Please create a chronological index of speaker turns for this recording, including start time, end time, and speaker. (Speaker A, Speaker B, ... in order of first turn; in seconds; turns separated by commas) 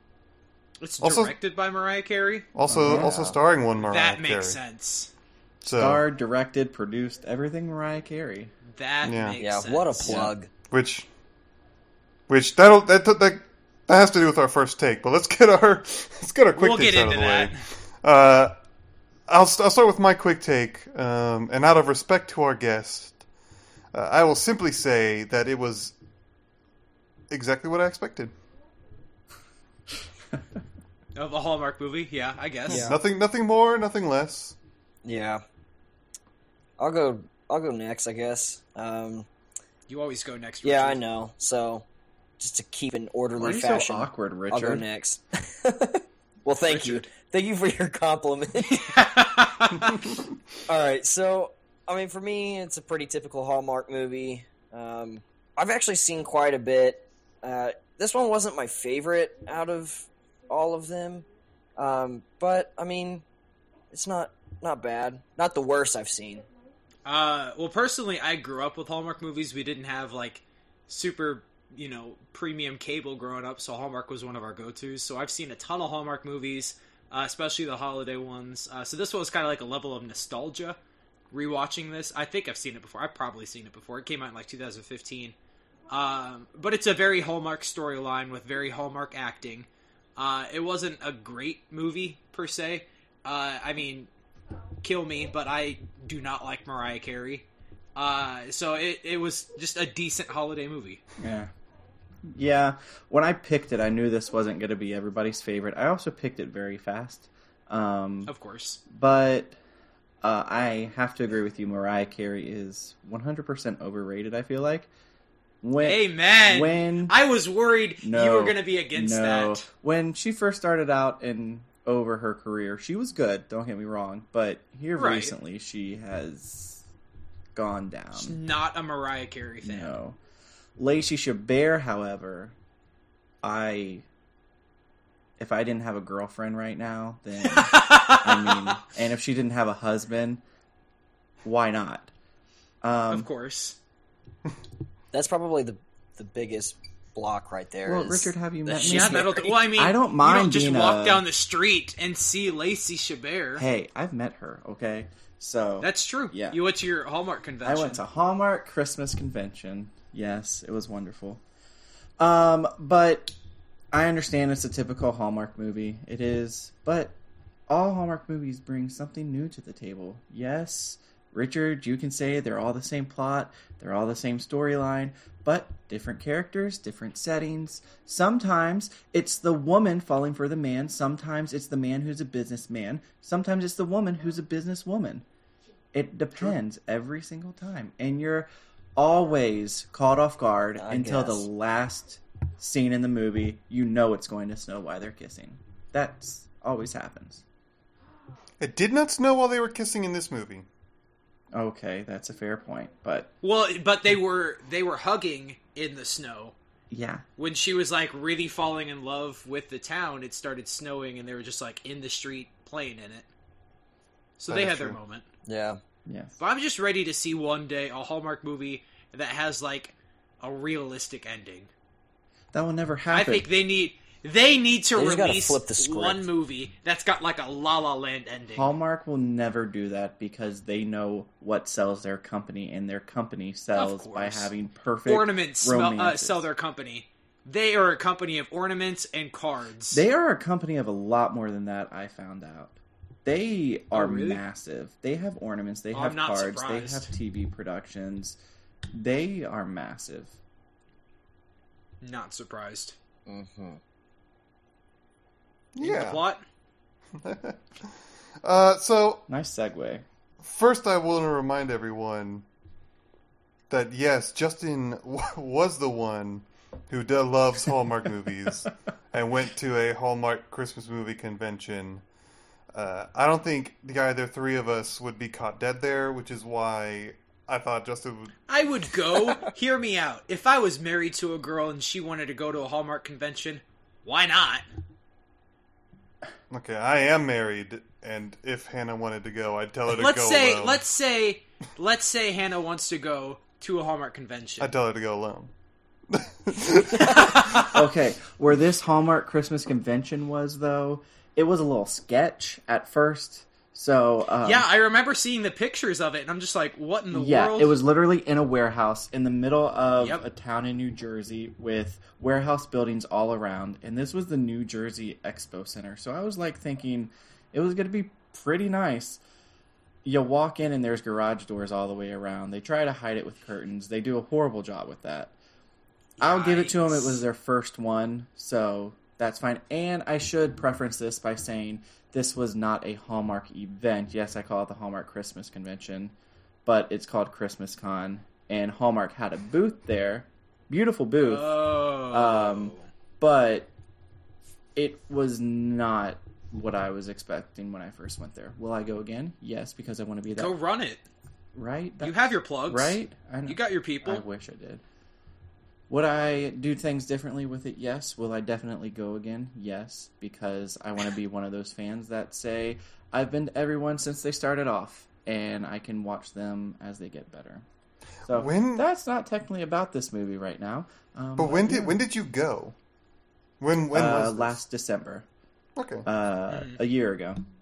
Speaker A: 0.8-2.5, Speaker B: 1.0-1.3, Speaker B: 2.5-4.6, Speaker C: 2.7-3.4, Speaker A: 3.8-5.1, Speaker B: 5.6-6.0, Speaker C: 5.7-8.5, Speaker A: 8.7-10.3, Speaker B: 9.0-9.4, Speaker D: 9.4-10.5, Speaker C: 10.1-10.3, Speaker B: 10.7-11.1, Speaker B: 12.3-18.5, Speaker A: 16.6-17.6, Speaker B: 19.3-23.2, Speaker B: 23.9-25.9, Speaker B: 27.3-28.3, Speaker A: 31.1-32.9, Speaker D: 32.7-33.0, Speaker B: 32.7-34.5, Speaker D: 35.0-35.4, Speaker D: 36.8-39.3, Speaker A: 39.9-41.0, Speaker D: 40.6-41.9, Speaker D: 42.4-48.9, Speaker C: 43.4-44.8, Speaker A: 46.7-47.0, Speaker A: 48.6-50.0, Speaker D: 50.7-61.2, Speaker D: 61.8-63.2, Speaker D: 63.9-66.4, Speaker A: 67.0-80.8, Speaker A: 81.3-85.3, Speaker A: 85.9-94.1, Speaker A: 94.8-101.0, Speaker C: 101.2-101.5, Speaker C: 102.2-108.3, Speaker A: 108.3-108.8, Speaker C: 108.9-109.6, Speaker C: 110.2-114.9, Speaker C: 115.6-117.2, Speaker A: 115.8-119.7, Speaker C: 118.0-126.8, Speaker A: 125.0-125.3, Speaker C: 127.5-128.4, Speaker A: 128.1-129.9, Speaker C: 129.6-130.2, Speaker C: 130.8-132.5, Speaker C: 133.4-134.0, Speaker C: 135.4-140.4, Speaker A: 137.4-138.7, Speaker C: 141.4-142.1, Speaker C: 142.8-143.3, Speaker A: 143.1-143.8, Speaker D: 145.1-149.3, Speaker C: 147.8-151.2, Speaker A: 148.7-153.6, Speaker C: 153.6-156.6, Speaker A: 155.8-158.0, Speaker C: 157.6-161.4, Speaker C: 162.2-163.3, Speaker C: 163.9-167.1, Speaker C: 167.7-185.2, Speaker C: 185.9-197.4, Speaker D: 190.8-191.4, Speaker B: 198.6-200.7, Speaker C: 201.5-203.3, Speaker A: 203.4-206.6, Speaker C: 206.9-207.2, Speaker A: 207.4-213.3, Speaker A: 214.4-215.2, Speaker B: 214.5-215.0, Speaker D: 215.4-215.8, Speaker C: 216.1-216.4, Speaker A: 216.4-221.7, Speaker C: 222.5-223.5, Speaker A: 223.1-228.7, Speaker D: 224.9-226.3, Speaker C: 228.5-236.5, Speaker A: 233.7-234.5, Speaker A: 235.1-240.0, Speaker C: 239.9-248.4, Speaker A: 243.9-244.4, Speaker A: 245.9-247.1, Speaker C: 248.9-250.3, Speaker A: 252.0-252.9, Speaker D: 253.3-253.8, Speaker B: 255.7-256.2, Speaker A: 255.8-256.4, Speaker B: 257.2-257.9, Speaker B: 258.4-259.2, Speaker C: 259.3-260.0, Speaker B: 260.4-262.4, Speaker B: 263.7-272.0, Speaker B: 272.7-278.3, Speaker A: 278.5-284.6, Speaker B: 286.5-290.8, Speaker A: 289.9-294.7, Speaker B: 294.6-295.5, Speaker B: 296.1-297.5, Speaker A: 297.0-297.8, Speaker C: 297.4-304.7, Speaker A: 304.4-307.8, Speaker C: 307.1-319.2, Speaker C: 320.0-325.3, Speaker A: 326.2-327.2, Speaker C: 326.2-336.1, Speaker C: 336.6-343.7, Speaker A: 341.2-342.9, Speaker C: 344.8-350.5, Speaker A: 350.3-351.0, Speaker C: 351.5-354.8, Speaker A: 352.0-354.2, Speaker C: 355.9-367.6, Speaker C: 368.3-372.0, Speaker B: 368.3-368.8, Speaker B: 371.4-372.7, Speaker B: 373.6-374.6, Speaker C: 373.9-375.2, Speaker B: 375.8-376.1, Speaker C: 376.0-377.4, Speaker A: 376.5-376.8